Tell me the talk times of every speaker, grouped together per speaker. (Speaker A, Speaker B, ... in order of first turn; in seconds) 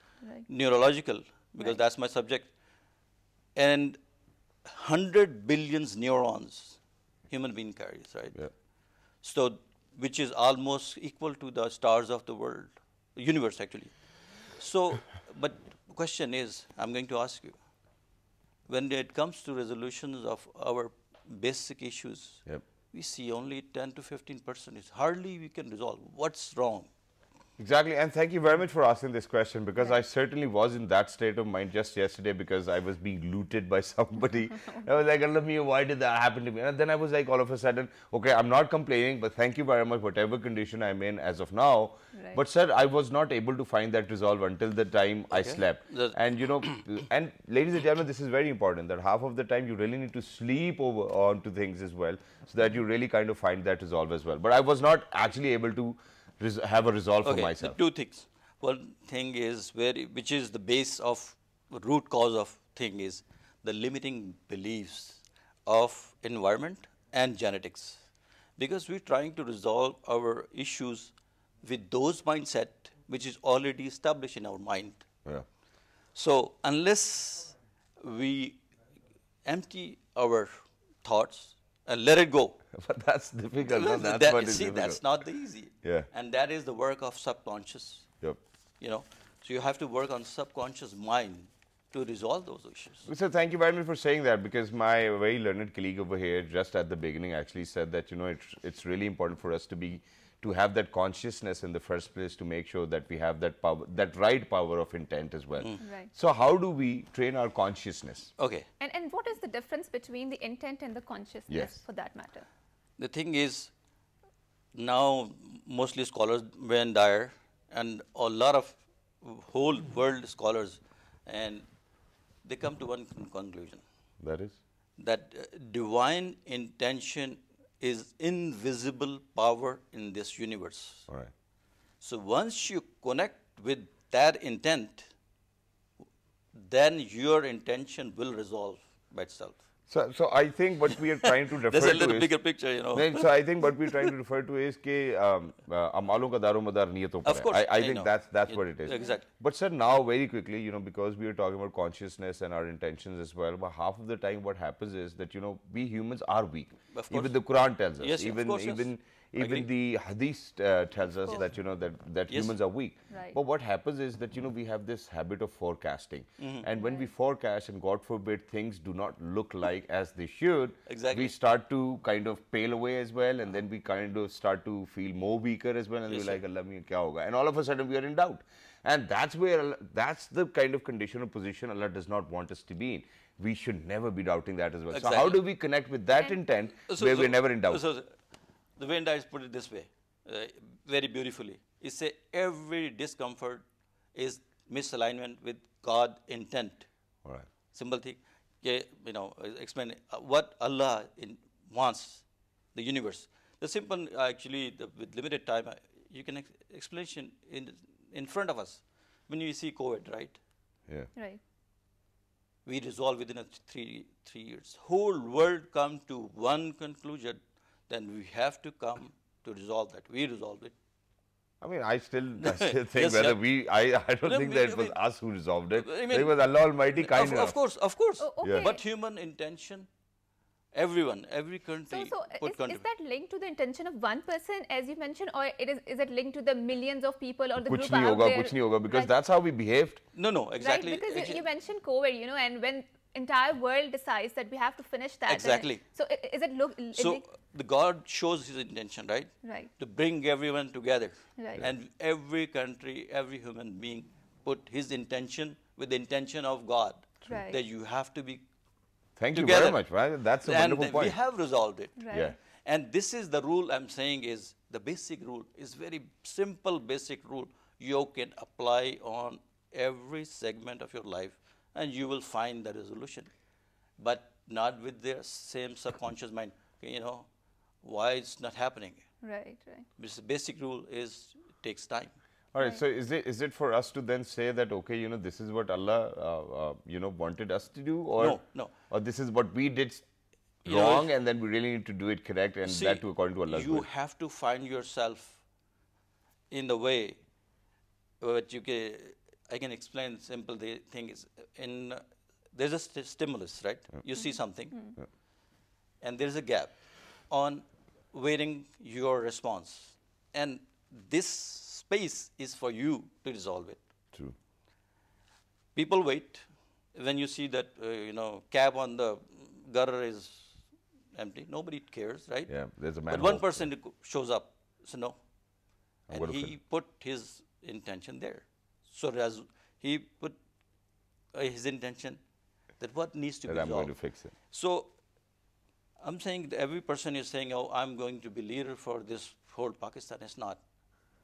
Speaker A: 0.5-2.5, 3.5-4.0, 4.7-8.4, 9.2-17.7, 18.7-26.9, 45.3-46.8, 57.2-75.1, 76.1-78.7, 79.4-82.6, 83.6-88.1, 88.8-93.1, 108.4-108.7, 113.0-113.7, 114.7-121.7, 122.4-123.8, 125.0-131.1, 132.0-135.1, 136.5-139.7, 141.2-143.3, 147.2-149.2, 156.9-157.4, 158.0-159.7, 162.3-162.6, 166.4-166.7, 170.9-171.4, 176.1-176.4, 184.9-185.4, 186.8-188.2, 188.8-196.9, 197.7-210.4, 212.7-220.8, 222.4-223.4, 224.2-225.0, 225.8-229.9, 230.7-232.8, 240.1-241.4, 245.3-245.8, 246.9-258.5, 259.3-259.8, 260.4-273.3, 274.0-279.1, 280.0-282.2, 288.2-288.7, 290.7-291.1, 292.6-295.5, 296.5-297.2, 298.2-304.9, 306.0-313.9, 315.7-322.6, 323.1-325.3, 326.1-330.4, 331.3-332.2, 332.8-334.0, 334.5-335.0, 336.0-340.6
Speaker B: 27.6-57.8, 82.7-85.0, 85.8-86.1, 93.1-108.3, 111.5-111.8, 124.2-124.6, 139.9-187.8, 221.6-227.6, 228.4-228.7, 237.7-240.0, 259.2-261.2, 262.1-262.4, 282.5-290.1, 290.6-293.9, 322.5-323.7, 326.1-326.5, 333.5-334.4
Speaker C: 42.1-42.4, 105.8-106.1, 108.8-112.5, 163.1-163.4, 166.8-167.1, 228.2-228.8, 231.9-239.1, 240.6-247.2, 249.4-249.7, 251.4-251.6, 257.3-257.6, 262.0-262.3, 279.2-279.9, 304.1-305.0